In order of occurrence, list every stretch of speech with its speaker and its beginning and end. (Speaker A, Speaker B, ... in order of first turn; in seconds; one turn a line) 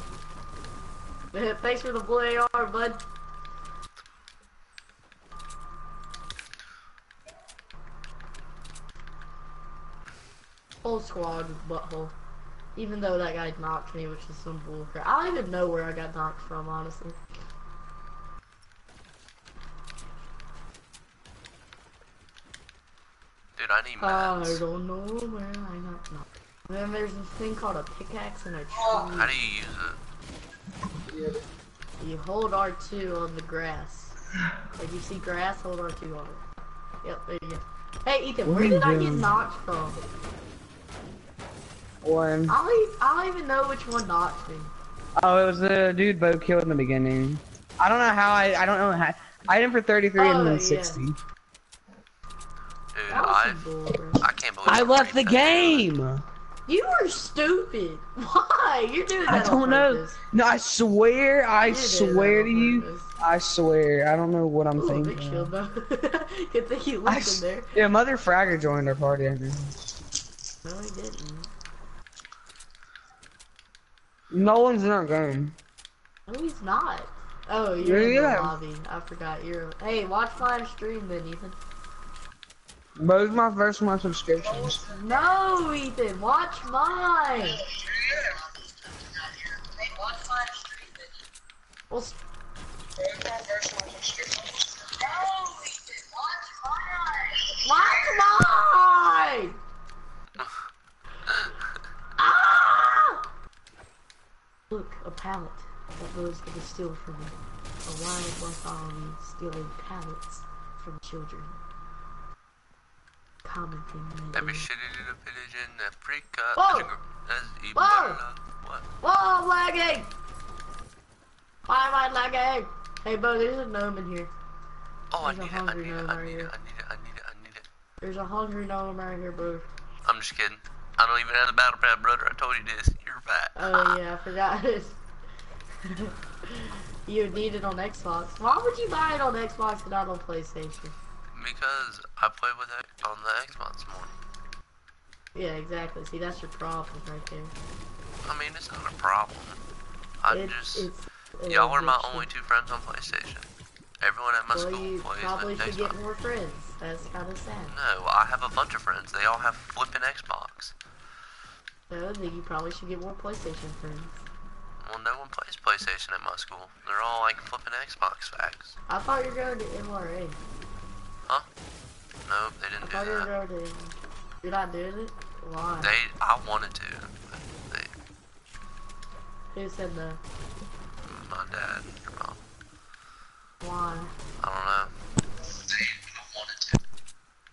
Speaker A: 1.3-3.0
Speaker A: 10.8-12.1
Speaker A: 12.8-17.2
Speaker B: 23.6-24.6
Speaker A: 24.0-29.3
Speaker C: 28.7-29.2
Speaker B: 29.1-30.0
Speaker C: 31.0-31.4
Speaker A: 32.0-34.1
Speaker A: 34.8-36.4
Speaker A: 37.0-40.0
Speaker C: 38.4-39.3
Speaker C: 42.0-42.5
Speaker A: 42.5-44.7
Speaker C: 45.2-51.2
Speaker A: 50.2-51.0
Speaker B: 52.9-53.6
Speaker A: 53.1-54.2
Speaker B: 54.2-55.9
Speaker C: 54.6-56.2
Speaker A: 56.7-60.2
Speaker C: 59.2-65.5
Speaker A: 61.6-63.1
Speaker A: 64.8-67.7
Speaker C: 67.0-69.8
Speaker A: 70.6-71.5
Speaker C: 74.3-75.5
Speaker A: 76.3-81.5
Speaker C: 77.8-78.5
Speaker C: 83.0-85.0
Speaker A: 84.9-87.6
Speaker C: 89.9-90.7
Speaker A: 91.9-92.2
Speaker C: 93.0-96.6
Speaker A: 97.6-99.6
Speaker A: 102.2-103.2
Speaker A: 104.7-111.6
Speaker A: 113.4-114.7
Speaker B: 114.3-118.8
Speaker A: 116.5-116.9
Speaker A: 117.7-118.2
Speaker A: 119.0-120.1
Speaker A: 121.7-124.3
Speaker B: 125.1-127.6
Speaker A: 125.2-126.5
Speaker A: 128.0-129.7
Speaker B: 130.1-134.0
Speaker A: 133.6-135.0
Speaker A: 135.8-140.9
Speaker B: 141.3-144.1
Speaker A: 145.3-147.5
Speaker B: 148.2-149.6
Speaker B: 150.2-150.9
Speaker A: 150.3-152.3
Speaker B: 151.5-153.5
Speaker B: 154.0-156.0
Speaker A: 154.5-157.7
Speaker B: 157.7-160.7
Speaker A: 161.9-164.2
Speaker B: 164.8-168.8
Speaker A: 168.9-170.4
Speaker B: 172.2-173.3
Speaker A: 172.8-175.9
Speaker B: 175.8-177.9
Speaker A: 179.5-180.2
Speaker B: 181.0-182.4
Speaker A: 183.6-184.1
Speaker B: 184.4-184.9